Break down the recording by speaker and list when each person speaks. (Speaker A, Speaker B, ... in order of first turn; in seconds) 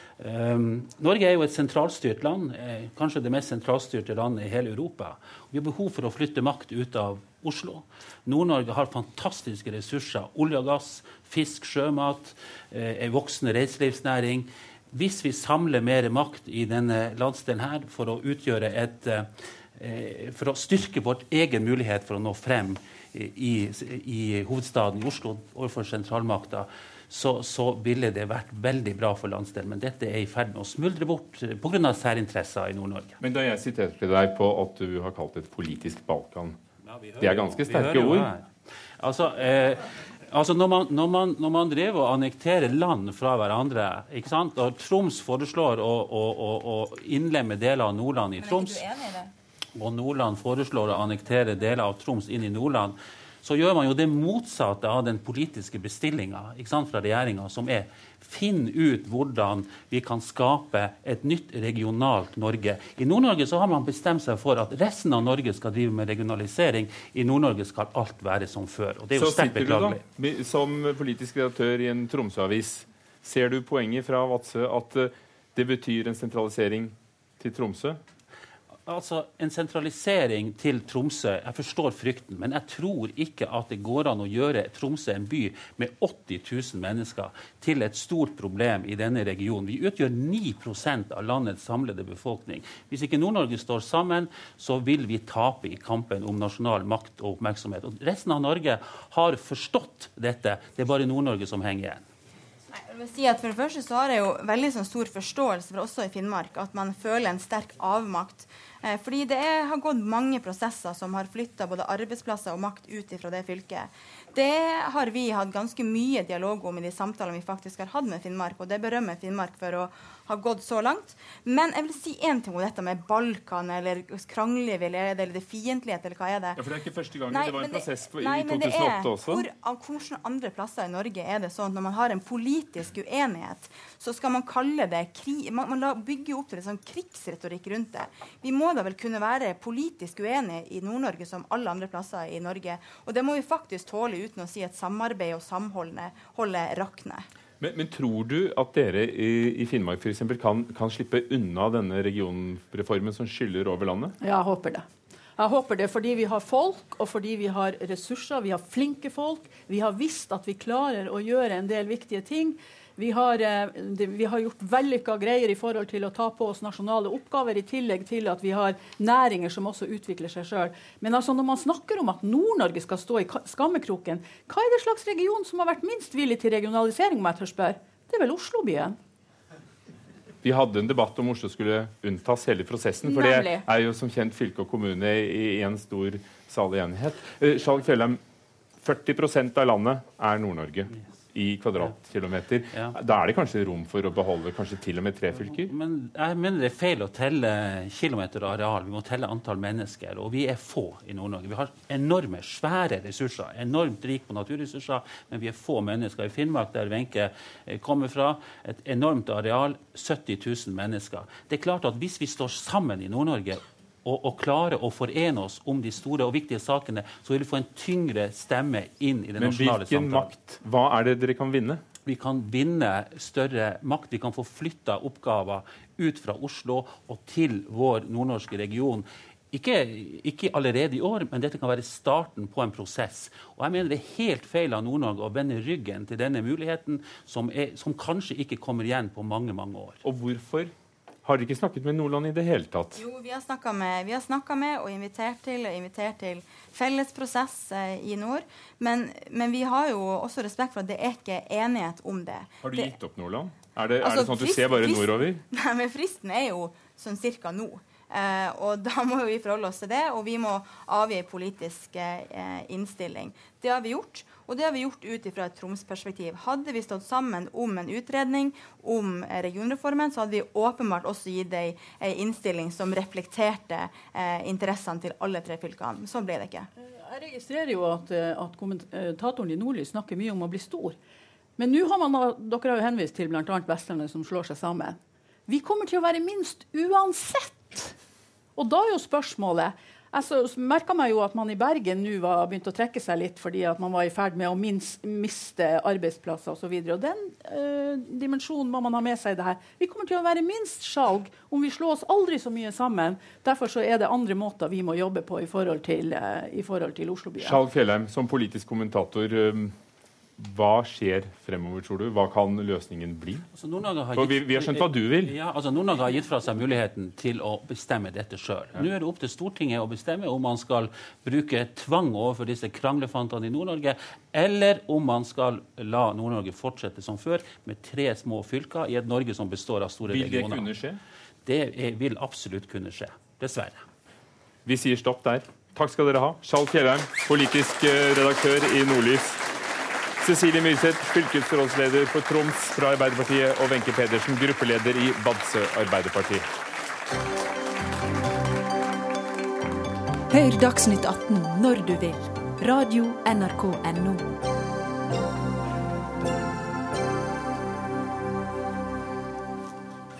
Speaker A: 0.2-33.2, 36.8-38.5, 39.0-48.8, 49.8-70.0, 78.8-102.0, 195.3-220.3, 222.0-240.0, 313.5-330.8, 331.4-333.8
Speaker B: 33.2-36.6, 37.2-38.3, 69.2-78.0, 126.5-129.4, 147.6-154.1, 180.4-188.2, 188.8-195.7, 219.4-221.8, 240.0-240.7, 241.2-243.0, 252.6-255.4, 307.4-309.7, 310.4-313.4, 314.1-315.3, 330.1-331.0, 334.6-339.4, 340.2-346.4
Speaker C: 48.4-49.3, 102.7-126.6, 127.3-147.2, 242.9-252.9, 254.0-276.7
Speaker D: 154.2-154.8, 155.4-179.0, 183.0-183.7, 276.8-281.0, 281.6-287.9, 288.6-307.6
Speaker E: 350.3-354.3